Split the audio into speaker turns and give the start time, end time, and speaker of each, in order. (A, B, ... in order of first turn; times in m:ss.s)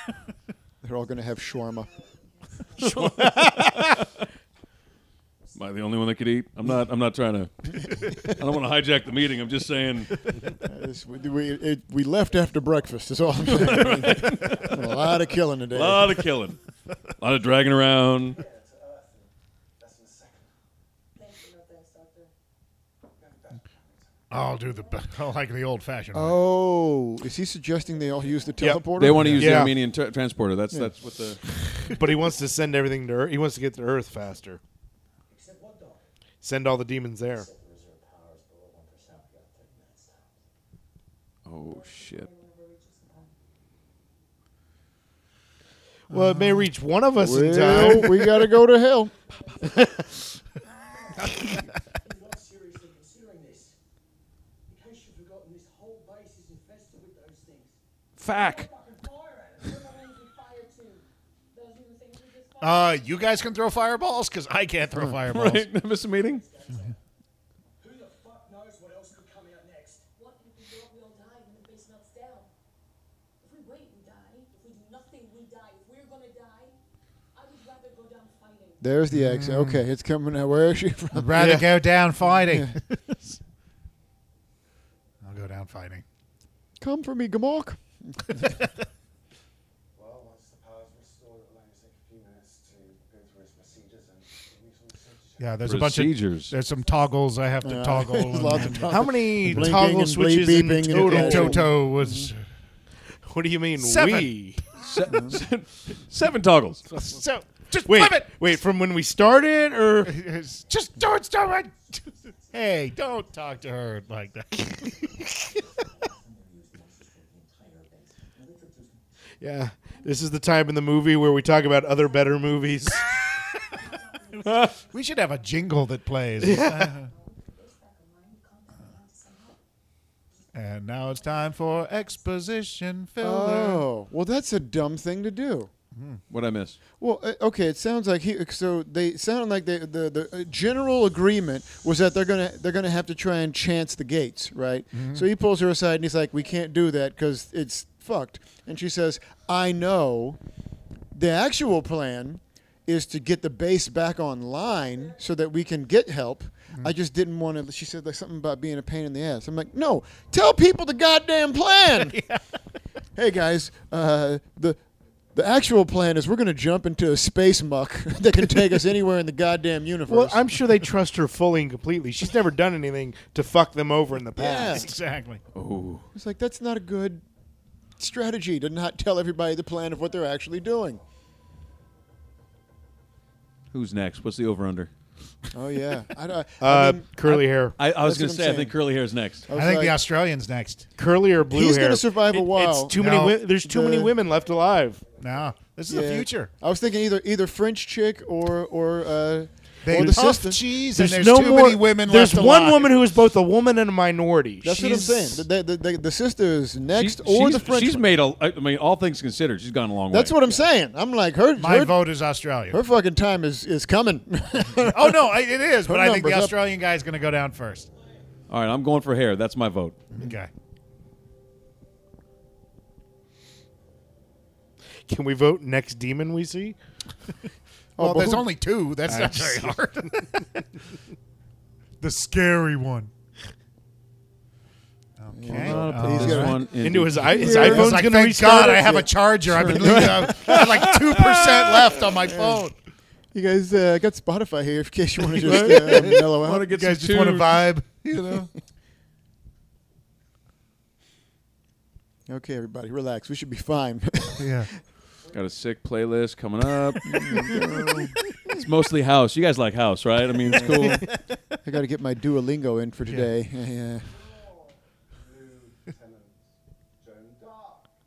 0:00.8-0:01.9 A
0:01.3-0:03.0 B
0:02.8-0:04.0 C
0:02.8-0:04.1 D
0:05.6-0:10.2 D
0:10.6-0:16.3 A
0:13.4-0:16.6 D
0:17.2-0:18.4 D
0:18.2-0:20.5 E
0:21.2-0:22.3 B
0:23.1-0:24.6 E
0:24.3-0:26.4 F
0:26.1-0:29.7 A
0:28.6-0:28.9 C
0:28.9-0:31.5 D
0:29.1-0:29.7 F
0:29.4-0:29.8 C
0:32.0-0:34.6 C
0:35.3-0:36.1 E
0:36.4-0:37.5 C
0:37.3-0:40.4 E
0:41.5-0:42.3 D
0:41.6-0:43.3 B
0:46.1-0:46.7 F
0:46.1-0:48.5 C
0:47.1-0:49.1 A
0:49.1-0:50.1 B
0:49.7-0:50.0 C
0:50.7-0:51.7 B
0:52.0-0:53.8 E
0:54.7-0:57.8 E
0:58.2-0:58.7 D
0:58.3-0:58.7 B
0:58.3-1:00.3 E
0:59.5-1:04.0 B
1:02.6-1:05.7 F
1:05.2-1:06.4 D
1:06.1-1:07.0 E
1:07.8-1:10.1 E
1:10.2-1:12.5 B
1:13.4-1:16.8 B
1:17.3-1:18.9 B
1:18.8-1:21.6 A
1:19.1-1:19.8 F
1:21.1-1:23.4 F
1:21.4-1:21.7 C
1:22.2-1:22.7 A
1:25.2-1:26.0 F
1:26.8-1:28.6 A
1:30.0-1:35.8 E
1:35.4-1:39.7 F
1:35.6-1:36.5 D
1:37.6-1:42.3 A
1:38.8-1:41.7 C
1:40.9-1:42.4 F
1:43.2-1:44.6 C
1:43.8-1:44.4 F
1:44.8-1:46.8 D
1:45.1-1:45.4 A
1:46.9-1:47.2 C
1:47.0-1:48.3 F
1:47.9-1:50.2 C
1:50.0-1:54.7 F
1:51.4-1:53.6 E
1:54.2-1:59.0 E
1:59.4-2:03.1 C
2:03.6-2:05.5 B
2:04.4-2:04.7 D
2:04.6-2:07.1 F
2:06.4-2:06.9 C
2:06.8-2:09.6 B
2:10.4-2:12.2 B
2:10.5-2:13.9 F
2:13.2-2:15.7 A
2:16.0-2:16.2 F
2:16.3-2:16.8 D
2:17.0-2:30.4 A
2:24.9-2:25.3 F
2:31.1-2:42.2 A
2:42.1-2:42.4 F
2:43.2-2:44.8 A
2:45.3-2:50.6 A
2:50.1-2:54.9 C
2:54.4-2:54.9 A
2:54.7-2:55.4 F
2:55.6-2:56.0 D
2:56.1-2:57.2 A
2:58.0-3:01.0 A
3:03.7-3:04.9 D
3:05.5-3:08.8 A
3:06.6-3:07.8 C
3:07.3-3:09.5 D
3:09.5-3:10.0 A
3:09.5-3:10.9 F
3:11.0-3:15.0 C
3:11.5-3:14.2 A
3:13.0-3:13.4 F
3:14.2-3:15.7 E
3:15.2-3:16.5 F
3:15.9-3:20.7 A
3:19.8-3:23.0 F
3:20.8-3:25.4 C
3:24.6-3:28.2 A
3:26.9-3:30.4 D
3:30.1-3:32.0 A
3:31.6-3:32.8 F
3:32.7-3:36.6 A
3:34.8-3:37.9 F
3:38.5-3:40.0 D
3:40.1-3:40.5 F
3:45.1-3:46.8 C
3:48.0-3:48.5 A
3:48.0-3:50.6 F
3:49.1-3:49.8 C
3:52.0-3:53.1 F
3:55.2-3:56.6 F
3:55.3-4:00.2 A
3:55.5-3:58.0 D
3:56.8-3:59.0 C
3:57.4-4:02.8 F
3:59.5-4:02.1 D
4:02.2-4:02.6 A
4:03.3-4:06.7 A
4:05.4-4:07.7 D
4:06.7-4:08.5 F
4:12.3-4:14.6 A
4:14.4-4:14.7 F
4:15.2-4:15.6 E
4:15.3-4:21.1 D
4:17.0-4:18.6 A
4:20.5-4:21.0 C
4:20.5-4:21.0 A
4:21.6-4:24.1 A
4:24.0-4:27.9 E